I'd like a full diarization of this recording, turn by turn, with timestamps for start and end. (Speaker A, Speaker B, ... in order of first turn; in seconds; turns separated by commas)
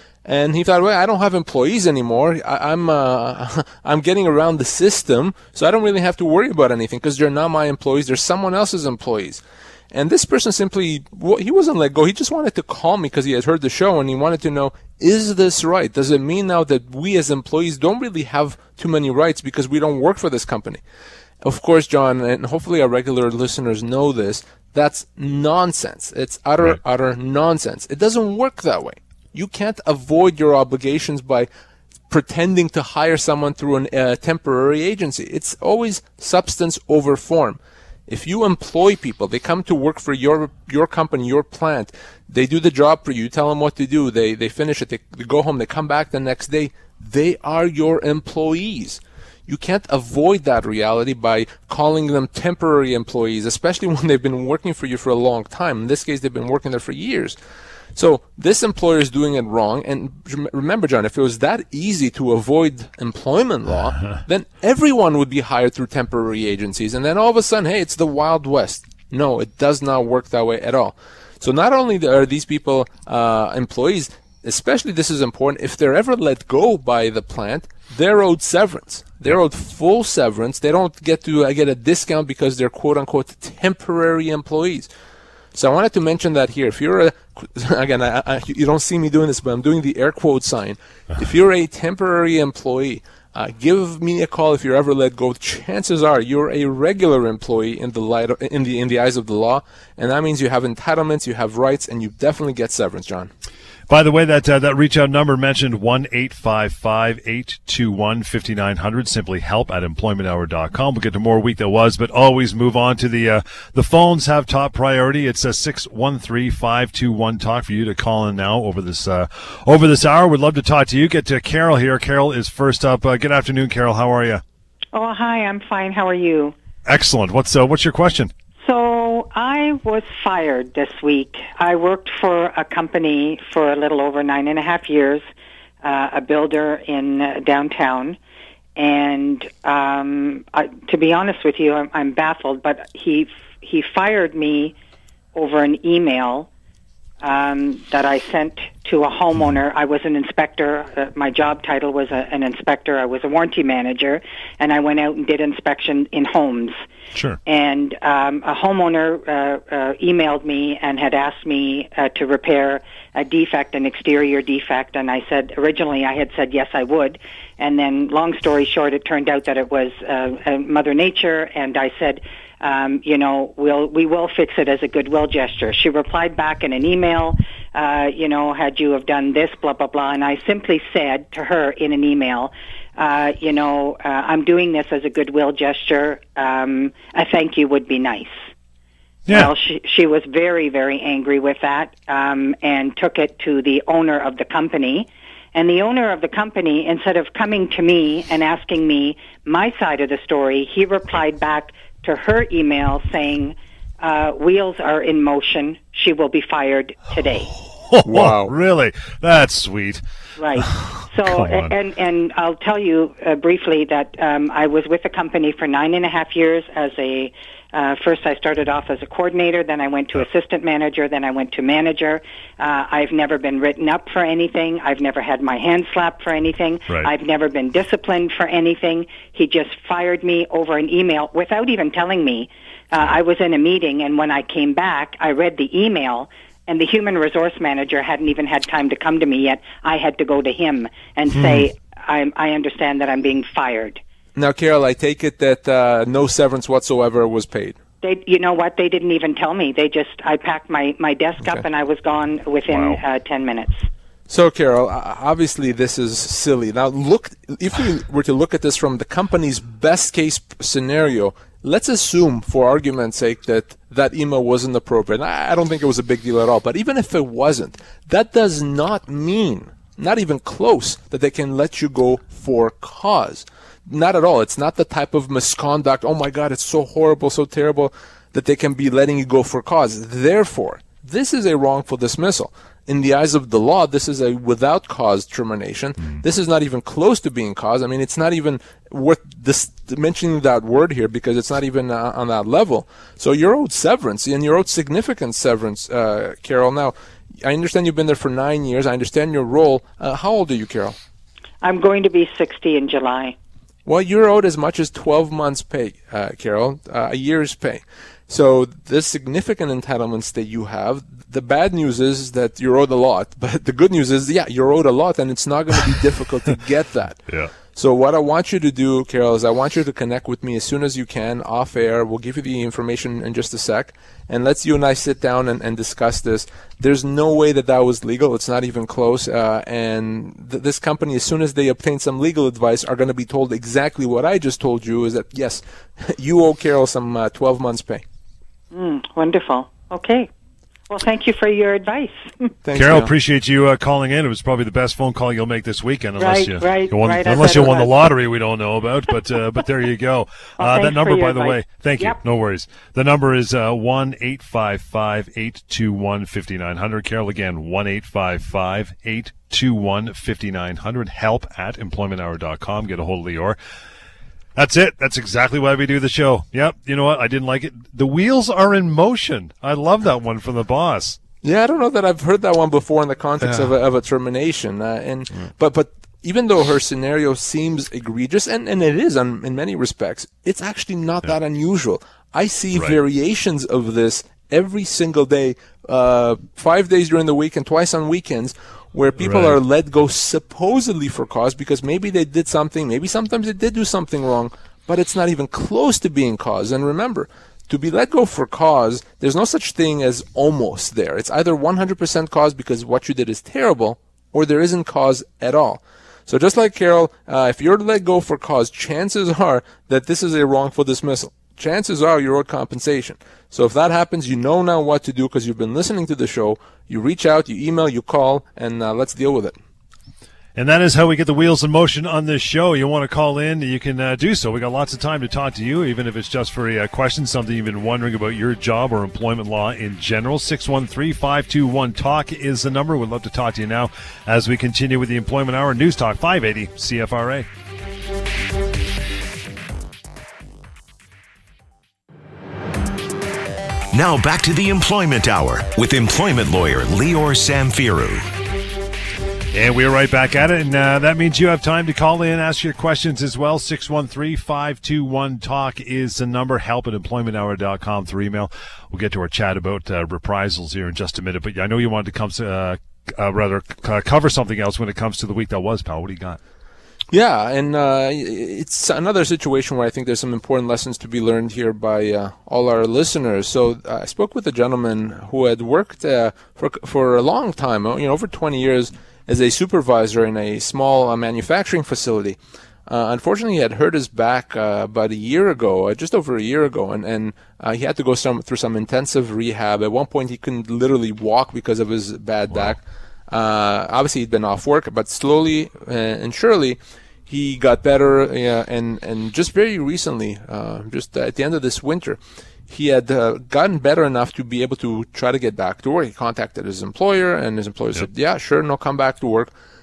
Speaker A: 0.2-20.8, Speaker A: 21.4-31.5, Speaker A: 32.1-57.4, Speaker A: 58.0-84.9, Speaker A: 85.5-103.3, Speaker B: 103.9-124.4, Speaker C: 124.9-126.5, Speaker B: 126.8-128.3, Speaker C: 128.6-135.2, Speaker C: 135.8-138.2, Speaker C: 138.8-144.7, Speaker C: 145.3-146.5, Speaker C: 147.2-156.8, Speaker C: 157.4-188.4, Speaker C: 189.3-207.5, Speaker B: 207.9-210.0, Speaker A: 208.0-208.5, Speaker C: 210.4-244.0, Speaker B: 210.6-211.7, Speaker B: 241.3-241.7, Speaker A: 244.3-247.8, Speaker C: 248.0-253.9, Speaker B: 252.7-253.0, Speaker A: 254.3-300.9, Speaker C: 301.6-303.4, Speaker A: 303.9-338.0, Speaker C: 338.7-340.3, Speaker C: 340.9-342.5, Speaker A: 342.6-343.1, Speaker B: 342.7-363.6, Speaker C: 346.2-347.9, Speaker C: 350.6-352.2, Speaker B: 364.6-371.2, Speaker A: 371.4-419.6, Speaker B: 389.2-389.6, Speaker B: 420.6-437.4, Speaker D: 443.9-448.3, Speaker B: 449.5-466.4, Speaker A: 467.1-509.5